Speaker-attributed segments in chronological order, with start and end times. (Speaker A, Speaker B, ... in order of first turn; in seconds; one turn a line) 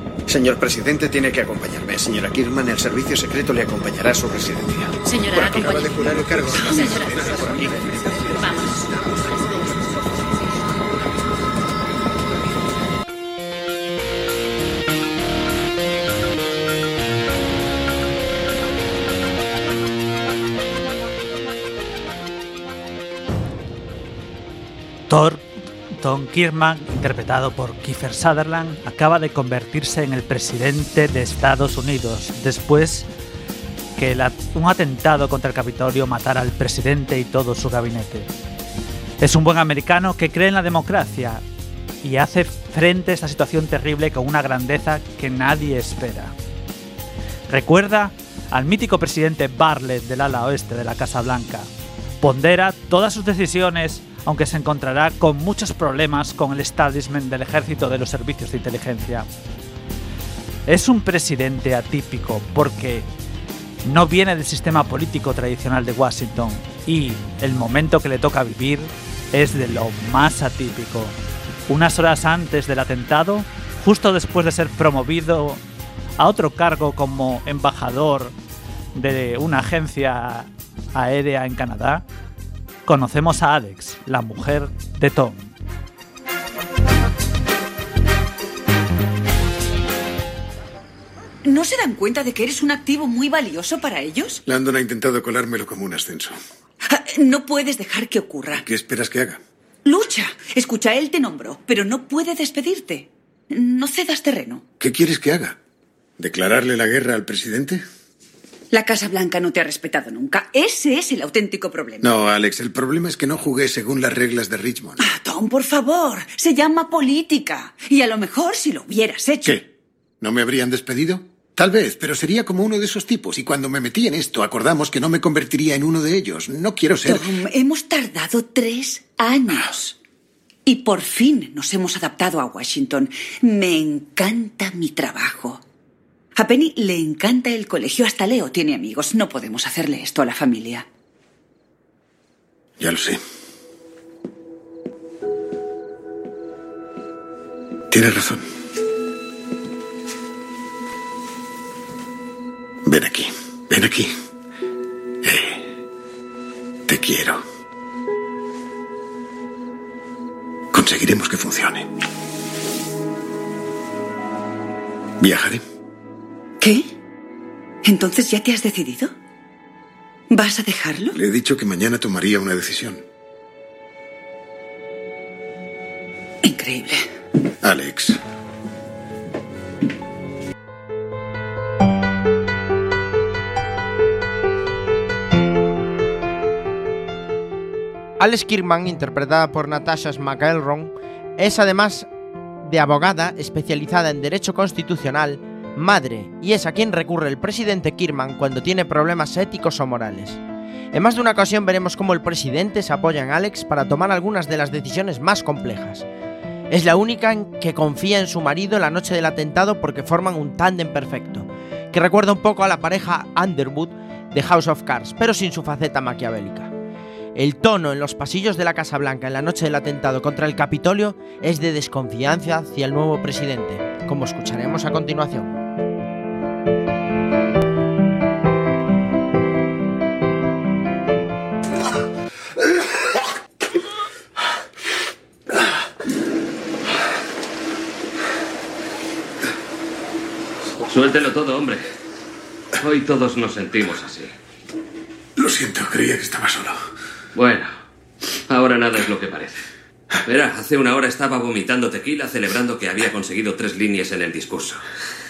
Speaker A: 0.3-8.4
Speaker B: 25.1-25.4
Speaker B: 26.0-33.1
Speaker B: 34.0-38.3
Speaker B: 39.2-41.4
Speaker B: 42.0-46.3
Speaker B: 47.5-51.7
Speaker B: 52.2-59.3
Speaker B: 60.7-63.1
Speaker B: 63.9-71.2
Speaker B: 71.7-75.6
Speaker B: 76.2-78.3
Speaker B: 79.0-82.0
Speaker B: 82.9-85.5
Speaker C: 91.5-94.4
Speaker D: 94.5-96.3
Speaker C: 96.9-98.7
Speaker D: 98.6-99.4
Speaker C: 99.8-104.6
Speaker D: 104.8-105.6
Speaker D: 106.2-107.8
Speaker C: 108.7-112.1
Speaker D: 112.0-115.0
Speaker C: 115.0-119.6
Speaker D: 120.2-127.4
Speaker C: 127.0-130.0
Speaker C: 130.7-135.6
Speaker C: 136.4-140.9
Speaker D: 142.8-143.2
Speaker D: 147.9-148.4
Speaker D: 152.8-154.1
Speaker D: 155.2-155.7
Speaker D: 156.9-157.4
Speaker D: 160.7-161.9
Speaker D: 165.2-165.6
Speaker C: 166.6-166.9
Speaker C: 167.8-169.1
Speaker C: 170.3-171.2
Speaker D: 171.1-173.0
Speaker C: 176.4-177.0
Speaker D: 177.6-178.2
Speaker E: 188.2-192.1
Speaker E: 192.6-200.4
Speaker E: 200.9-206.1
Speaker E: 206.7-216.7
Speaker E: 217.3-225.5
Speaker F: 240.8-241.8
Speaker F: 242.8-244.3
Speaker D: 245.4-246.8
Speaker F: 247.3-247.7
Speaker F: 248.5-249.6
Speaker F: 250.3-254.8